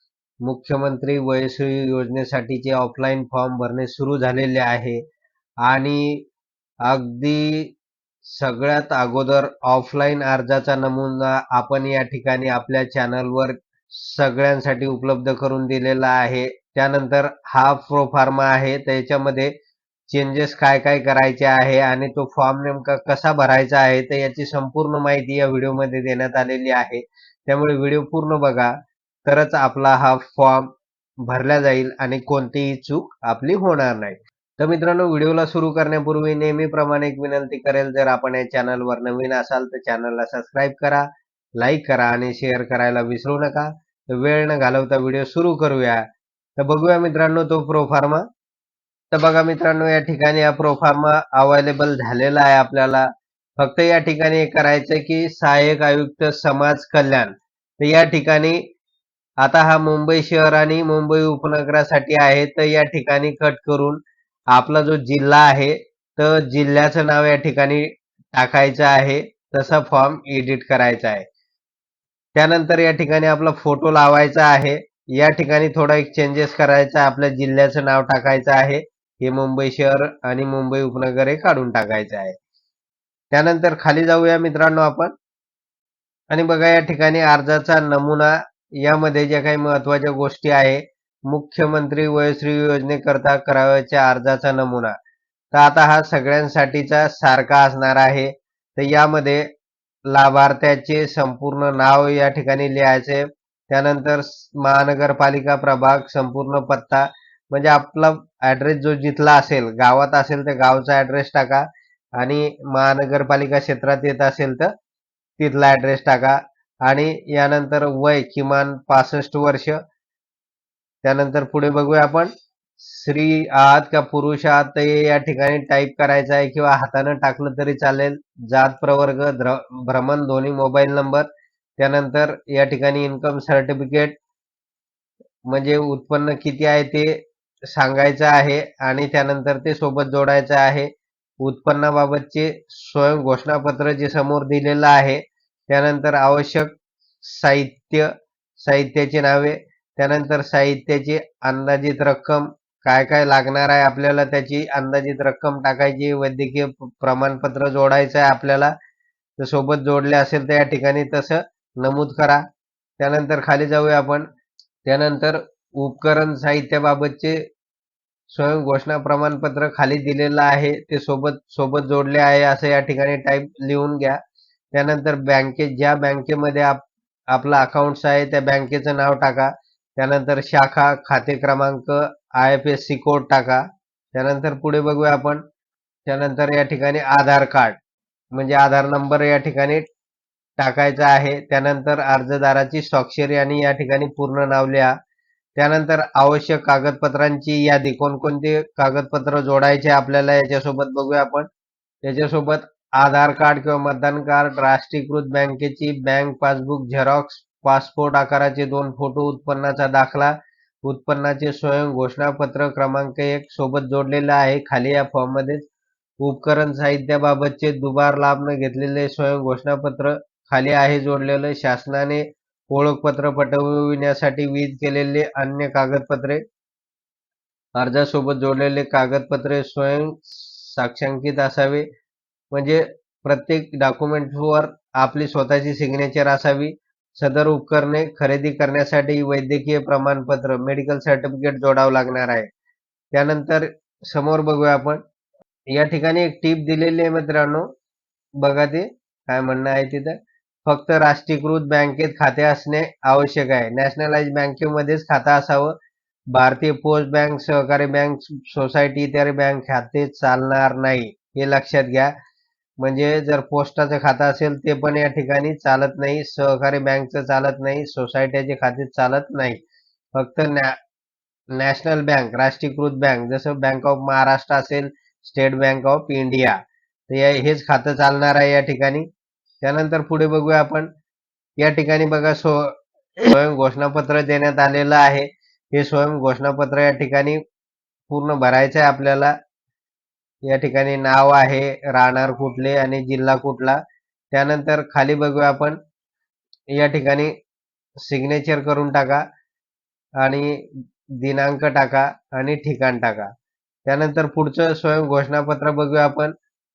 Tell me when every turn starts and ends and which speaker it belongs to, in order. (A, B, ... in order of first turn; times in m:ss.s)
0:00.4-0:05.0 A
0:05.6-0:06.2 A
0:06.8-0:07.7 A
0:08.2-0:19.5 A
0:20.1-0:28.7 A
0:29.2-0:30.7 A
0:31.3-0:41.0 A
0:41.6-0:46.0 A
0:46.6-0:48.2 A
0:49.1-0:53.0 A
0:53.6-0:58.6 A
0:59.4-1:04.0 A
1:04.5-1:11.2 A
1:12.3-1:22.3 A
1:23.3-1:25.1 A
1:26.3-1:34.9 A
1:35.5-1:39.4 A
1:40.1-1:51.6 A
1:52.2-1:54.7 A
1:55.4-1:59.8 A
2:01.0-2:11.2 A
2:11.8-2:14.1 A
2:15.5-2:17.2 A
2:17.7-2:20.9 A
2:21.4-2:28.1 A
2:28.6-2:38.7 A
2:39.4-2:42.4 A
2:43.0-2:44.2 A
2:44.8-2:47.4 A
2:48.3-2:54.2 A
2:54.7-3:03.6 A
3:04.1-3:05.4 A
3:06.0-3:07.8 A
3:08.3-3:09.8 A
3:10.6-3:14.9 A
3:15.6-3:21.5 A
3:22.0-3:35.6 A
3:36.2-3:46.4 A
3:47.8-3:51.8 A
3:52.5-4:02.5 A
4:03.1-4:05.0 A
4:05.7-4:07.6 A
4:08.4-4:10.1 A
4:10.6-4:15.7 A
4:16.3-4:22.1 A
4:22.8-4:29.6 A
4:30.2-4:30.7 A
4:31.6-4:36.6 A
4:37.1-4:39.0 A
4:39.6-4:40.9 A
4:41.6-4:42.7 A
4:43.2-4:47.4 A
4:48.1-4:49.3 A
4:50.5-4:53.8 A
4:54.3-4:55.8 A
4:56.8-4:57.3 A
4:58.0-4:59.2 A
5:00.2-5:00.6 A
5:01.2-5:03.3 A
5:03.8-5:06.3 A